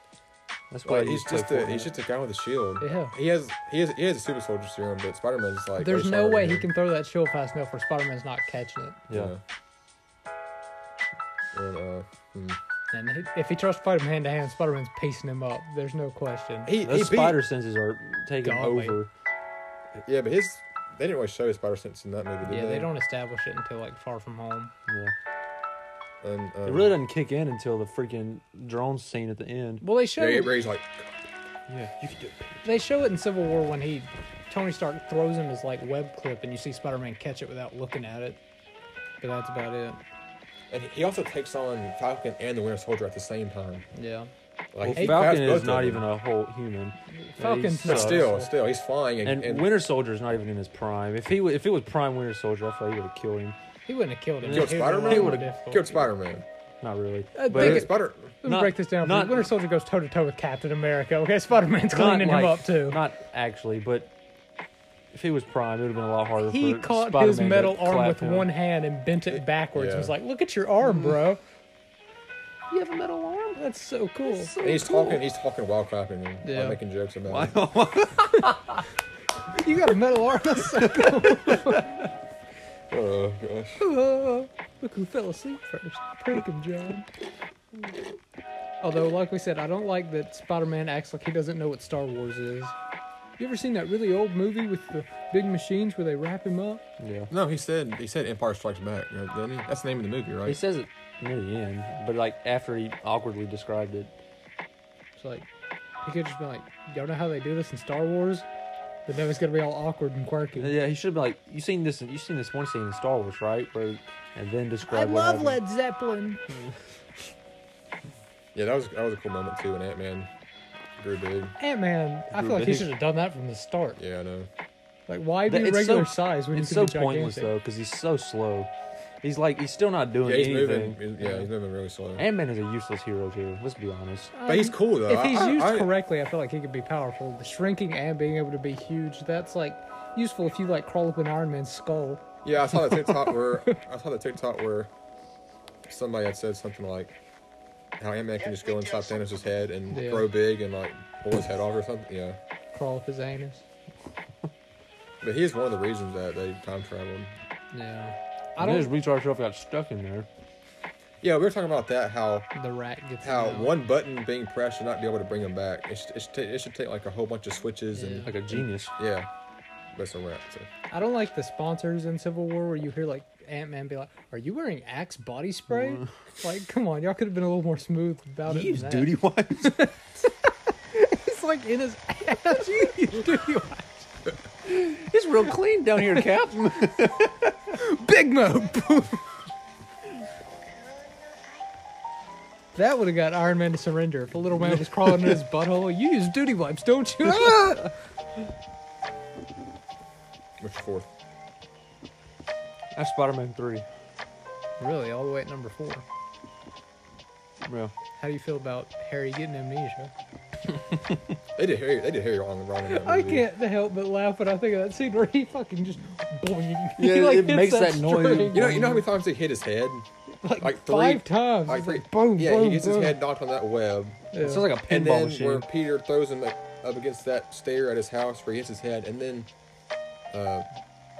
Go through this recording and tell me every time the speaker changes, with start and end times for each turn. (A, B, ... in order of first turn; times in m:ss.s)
0:00.7-0:01.9 A
0:00.8-0:06.7 B
0:02.8-0:03.1 C
0:05.8-0:09.0 C
0:09.1-0:09.4 B
0:11.5-0:12.6 B
0:12.9-0:16.7 C
0:16.6-0:17.4 B
0:16.8-0:19.1 A
0:18.4-0:19.0 C
0:20.0-0:22.9 B
0:22.4-0:24.7 C
0:24.9-0:25.1 A
0:26.2-0:27.0 B
0:26.6-0:29.8 A
0:29.8-0:30.6 C
0:30.2-0:31.2 B
0:31.7-0:32.6 A
0:32.6-0:38.4 C
0:39.2-0:40.0 C
0:40.7-0:43.8 B
0:43.9-0:44.3 C
0:44.7-0:46.0 B
0:44.8-0:48.3 A
0:45.0-0:45.2 C
0:47.1-0:48.5 C
0:47.8-0:49.7 B
0:49.2-0:53.6 A
0:53.9-0:55.9 C
0:54.4-0:55.5 A
0:54.5-0:56.4 B
0:56.8-0:57.9 A
0:57.3-1:03.0 C
0:57.5-0:58.4 B
0:58.4-0:59.5 A
1:01.9-1:04.1 A
1:05.1-1:08.5 A
1:06.4-1:11.4 C
1:09.3-1:10.1 B
1:12.7-1:13.6 A
1:13.6-1:14.5 C
1:14.2-1:15.2 A
1:14.6-1:17.6 B
1:16.4-1:16.8 C
1:17.3-1:18.8 A
1:19.5-1:21.9 C
1:20.7-1:21.8 A
1:22.9-1:23.8 B
1:23.8-1:27.1 C
1:28.8-1:32.7 C
1:33.4-1:36.8 C
1:37.0-1:37.3 A
1:37.3-1:40.6 B
1:40.4-1:44.1 A
1:45.2-1:45.4 C
1:46.0-1:48.4 C
1:49.1-1:50.8 C
1:50.6-1:55.6 A
1:54.9-1:56.4 C
1:58.5-2:00.3 B
2:01.0-2:01.6 B
2:01.6-2:04.0 C
2:02.3-2:02.9 A
2:04.0-2:04.5 B
2:05.1-2:07.5 C
2:05.5-2:08.7 A
2:09.2-2:11.0 A
2:10.2-2:12.2 B
2:11.2-2:11.4 C
2:12.2-2:14.3 A
2:14.3-2:23.8 C
2:14.4-2:15.9 B
2:22.4-2:24.9 B
2:25.9-2:27.1 B
2:28.0-2:32.4 B
2:29.9-2:30.3 C
2:32.7-2:33.6 C
2:35.2-2:37.3 B
2:37.7-2:38.9 C
2:38.6-2:40.3 A
2:41.2-2:42.5 B
2:42.5-2:43.7 C
2:43.2-2:49.3 B
2:47.9-2:48.3 C
2:48.2-2:48.9 A
2:49.9-2:50.7 B
2:50.9-3:00.3 C
2:58.5-2:59.9 A
3:00.9-3:04.1 C
3:04.6-3:07.5 A
3:07.7-3:09.3 C
3:12.7-3:17.9 C
3:14.6-3:15.4 A
3:17.3-3:17.8 A
3:20.6-3:21.1 B
3:22.9-3:23.9 A
3:24.8-3:26.0 C
3:27.6-3:27.9 A
3:28.2-3:30.1 C
3:31.5-3:33.4 B
3:32.9-3:39.0 C
3:37.0-3:39.0 A
3:38.5-3:40.0 B
3:40.4-3:43.2 C
3:40.6-3:44.3 B
3:44.3-3:44.7 C
3:44.4-3:45.7 A
3:44.8-3:49.5 B
3:50.3-3:50.6 B